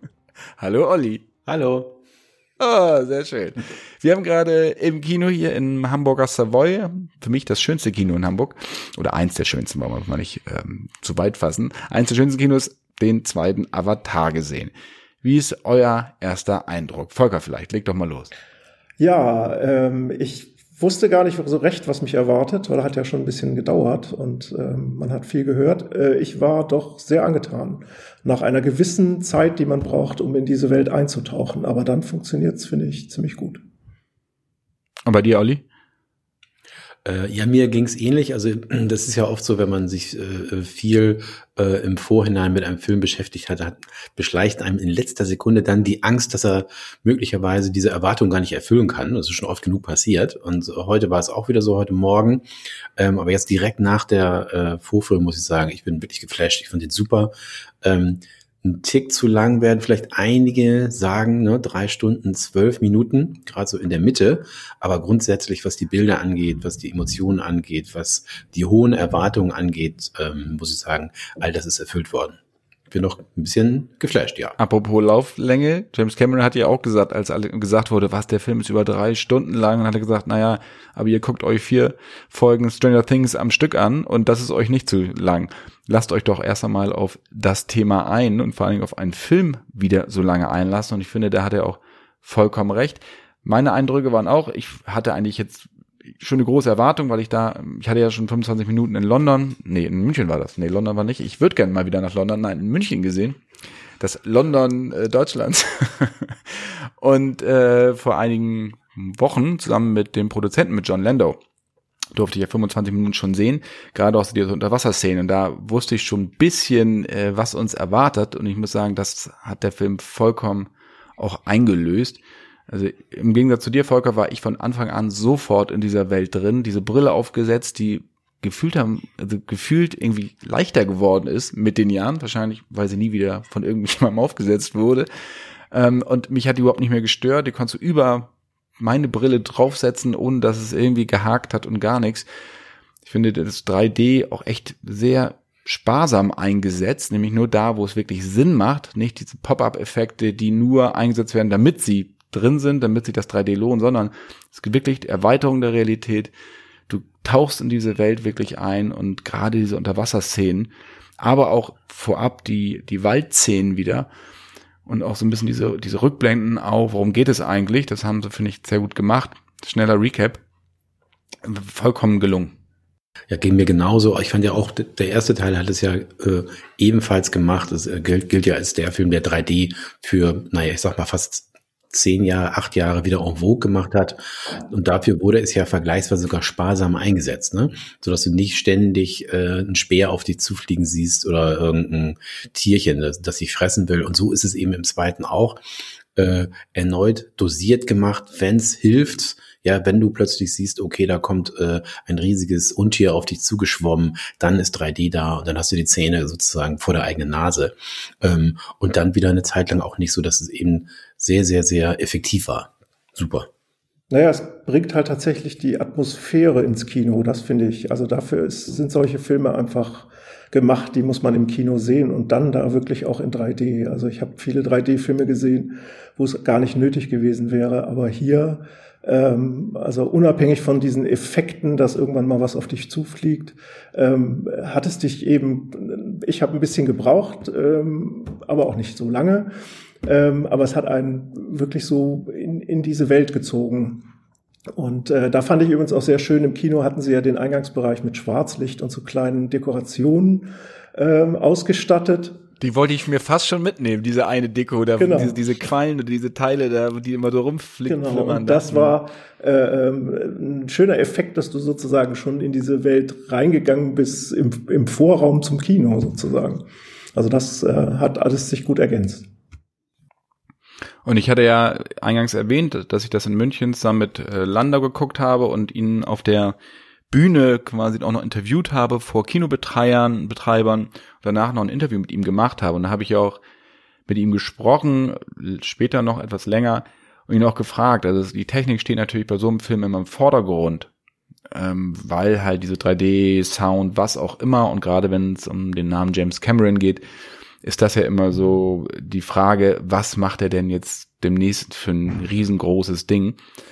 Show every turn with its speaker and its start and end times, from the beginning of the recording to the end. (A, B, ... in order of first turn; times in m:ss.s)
0:00.6-0:01.2 A
0:01.4-0:02.0 B
0:02.6-0:14.7 A
0:15.2-0:18.3 A
0:19.0-0:33.6 C
0:35.0-0:35.6 A
0:37.0-0:52.4 B
0:53.0-1:12.4 B
1:12.9-1:14.6 B
1:14.6-1:43.4 A
1:44.0-1:51.4 A
1:52.1-2:15.1 A
2:15.7-2:22.3 A
2:23.0-2:36.3 A
2:36.9-2:44.1 A
2:44.8-2:50.4 A
2:51.4-2:52.5 A
2:53.3-3:15.6 B
3:16.2-3:33.5 B
3:34.1-3:59.5 C
4:00.0-4:04.0 C
4:04.8-4:12.4 C
4:12.6-4:19.0 A
4:15.0-4:15.4 C
4:17.9-4:29.3 C
4:31.0-4:36.6 A
4:37.1-4:43.4 A
4:44.1-4:50.9 A
4:51.5-4:57.0 A
4:57.6-5:03.4 A